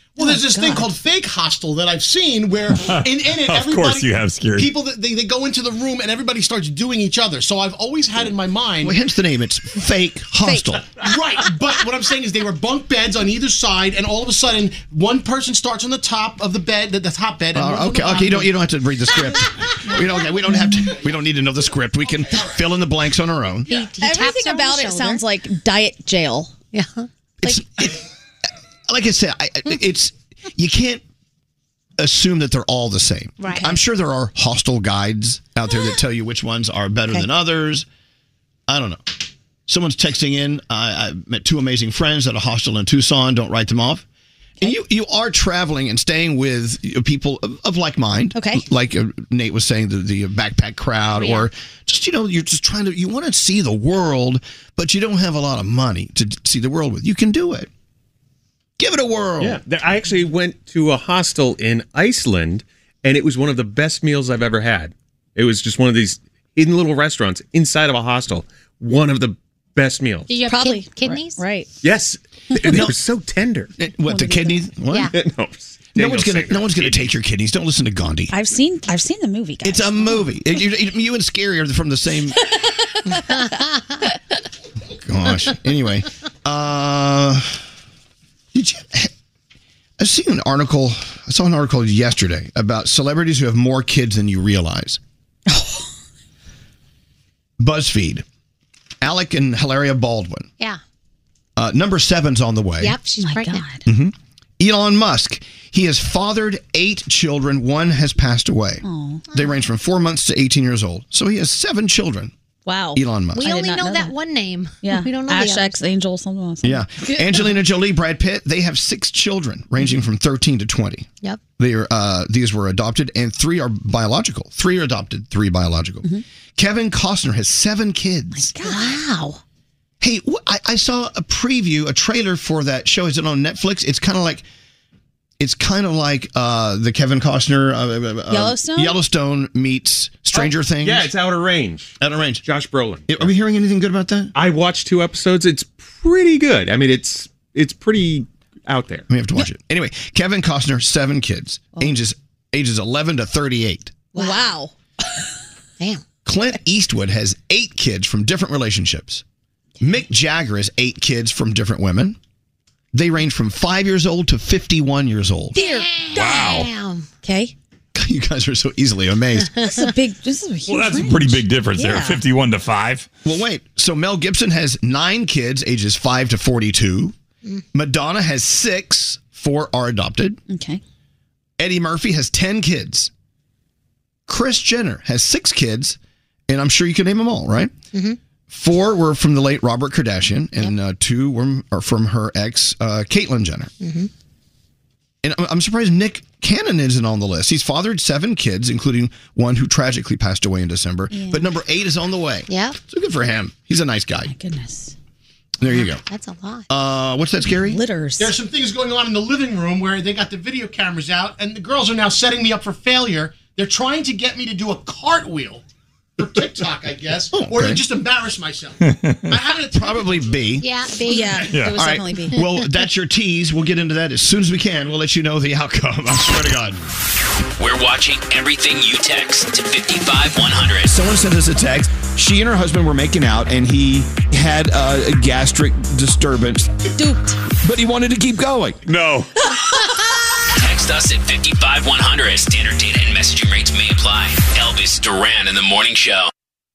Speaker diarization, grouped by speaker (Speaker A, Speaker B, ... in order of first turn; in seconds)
Speaker A: 0.2-8.9, 11.0-18.5, 208.2-215.6, 216.2-220.2
Speaker B: 0.2-0.9, 10.4-10.7, 24.0-26.5, 48.4-48.6, 70.5-71.7, 74.1-74.6, 78.3-80.3, 82.5-83.5, 95.5-95.9, 103.2-103.8, 108.8-109.3, 112.7-114.1, 114.8-117.5, 128.3-129.1, 138.3-139.0, 154.2-154.7, 165.6-166.5, 167.2-167.5, 169.7-172.2, 180.5-180.8, 201.1-201.5, 204.2-204.9, 207.5-208.3, 221.1-222.5, 237.0-237.4
Speaker C: 2.9-4.7, 166.1-166.7, 170.7-173.1, 218.9-219.4, 221.5-221.8, 238.9-239.9
Speaker D: 8.8-10.9, 17.6-23.8, 27.4-28.1, 28.9-31.0, 32.0-37.9, 38.7-44.0, 44.6-57.7, 58.8-59.6, 72.6-72.9, 73.8-75.1, 76.0-78.3, 79.6-82.4, 85.0-87.6, 88.5-89.1, 90.0-95.0, 97.6-98.2, 99.0-100.5, 101.6-103.0, 103.9-112.3, 113.0-113.5, 116.6-128.5, 130.0-134.5, 135.4-141.1, 142.0-142.4, 143.1-144.3, 149.1-154.0, 156.3-159.2, 159.8-162.2, 162.9-165.6, 167.9-169.5, 173.2-177.2, 177.7-180.4, 181.6-183.1, 184.3-187.7, 188.5-193.7, 195.2-204.3, 205.6-206.0, 206.7-207.8, 217.3-217.8, 219.7-220.7, 221.8-226.9, 230.9-236.7, 237.6-238.8
Speaker E: 23.7-25.3, 26.7-27.1, 33.4-33.8, 51.1-51.5, 70.3-71.4, 83.2-83.4, 102.8-103.7, 113.3-115.8, 128.6-129.4, 154.2-154.5, 155.8-156.1, 165.6-167.1, 169.4-169.9, 187.9-188.2, 193.8-194.1, 202.5-202.8, 205.6-206.7, 220.6-221.6
Speaker F: 59.4-70.3, 71.8-73.7, 75.1-77.1, 140.3-143.3, 144.3-149.1
Speaker G: 227.6-230.9, 240.5-246.3